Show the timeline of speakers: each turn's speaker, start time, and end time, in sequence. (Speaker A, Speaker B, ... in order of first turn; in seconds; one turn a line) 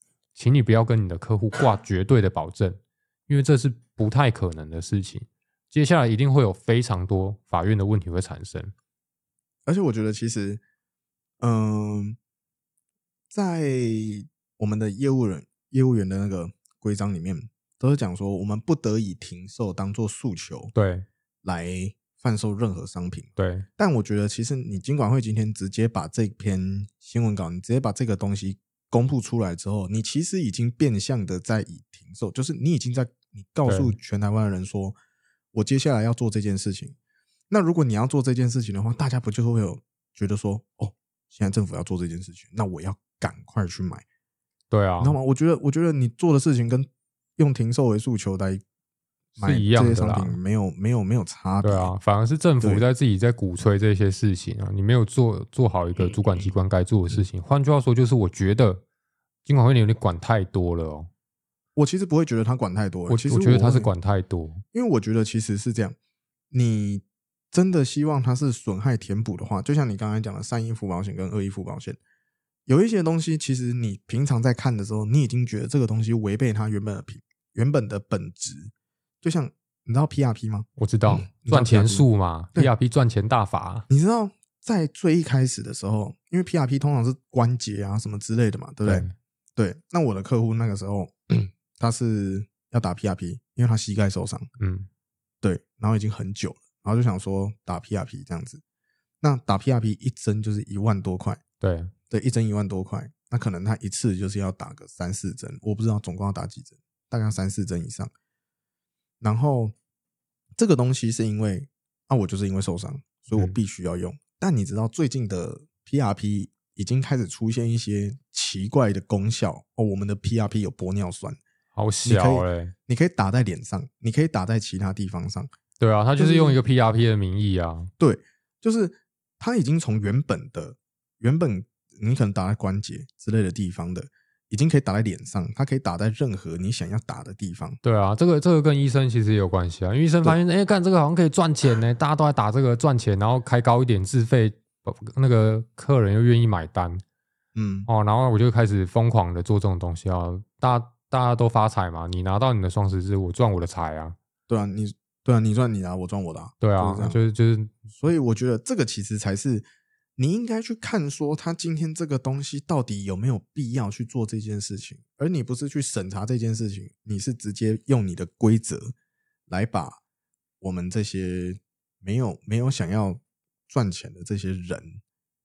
Speaker A: 0.3-8.7
Speaker B: 9.7-10.6
Speaker B: 11.4-12.2
Speaker B: 13.3-20.7
Speaker A: 20.7-21.1
Speaker B: 21.4-35.0
Speaker A: 23.4-23.7
Speaker A: 33.7-34.0
Speaker B: 35.5-37.0
Speaker B: 37.5-44.0
Speaker A: 44.7-45.2
Speaker B: 45.0-48.6
Speaker B: 49.4-51.9
Speaker A: 49.4-50.4
Speaker A: 51.6-58.8
Speaker A: 59.5-61.1
Speaker B: 61.8-63.9
Speaker A: 63.1-64.6
Speaker B: 64.7-66.0
Speaker B: 66.5-72.0
Speaker B: 72.7-82.7
Speaker A: 80.8-83.9
Speaker B: 83.9-89.0
Speaker A: 88.8-89.1
Speaker B: 89.6-94.5
Speaker A: 94.6-94.9
Speaker B: 95.4-98.6
Speaker B: 99.2-101.4
Speaker A: 101.6-101.9
Speaker B: 102.1-108.1
Speaker B: 109.2-109.7
Speaker B: 110.5-121.4
Speaker A: 121.7-122.7
Speaker B: 122.0-125.5
Speaker A: 125.8-127.9
Speaker B: 126.2-126.6
Speaker B: 128.0-137.8
Speaker A: 137.8-147.0
Speaker B: 147.5-147.9
Speaker A: 147.9-154.2
Speaker B: 154.5-157.2
Speaker A: 156.6-157.7
Speaker B: 157.9-168.9
Speaker B: 169.5-170.0
Speaker B: 170.6-175.0